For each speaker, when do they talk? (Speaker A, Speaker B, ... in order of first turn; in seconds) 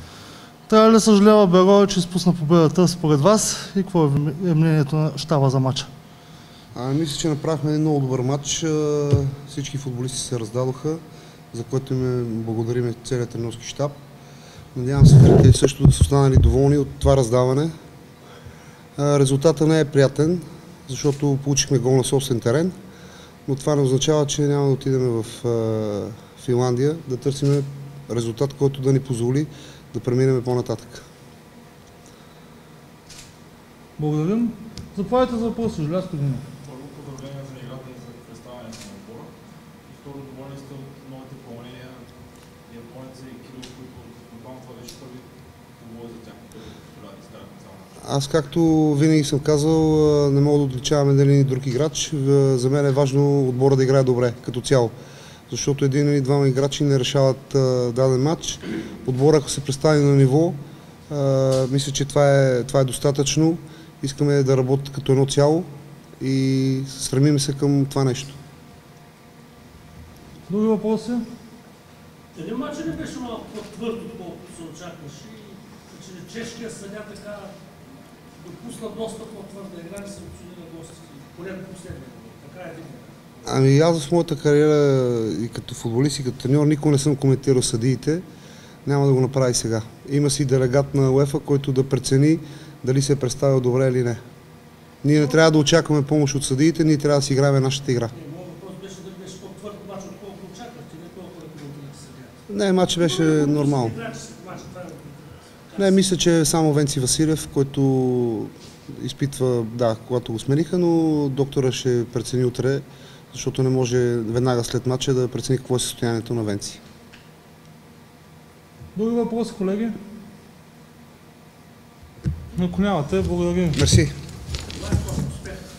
Speaker A: 0.7-5.9, 34.0-36.4, 70.5-71.2, 118.9-120.0, 122.5-123.8
Speaker B: 6.7-11.0, 11.5-13.9, 14.7-17.7, 19.0-22.7, 23.4-31.0, 48.0-54.9, 55.5-60.6, 61.1-65.7, 66.2-68.4, 83.4-88.2, 88.8-94.2, 95.0-98.1, 102.5-103.9, 105.8-116.8, 123.7-124.1
Speaker C: 36.6-39.3, 39.9-42.1, 42.6-48.0
Speaker D: 72.3-77.5, 78.4-83.2, 95.2-95.5, 98.1-102.3, 103.0-106.0, 124.7-125.7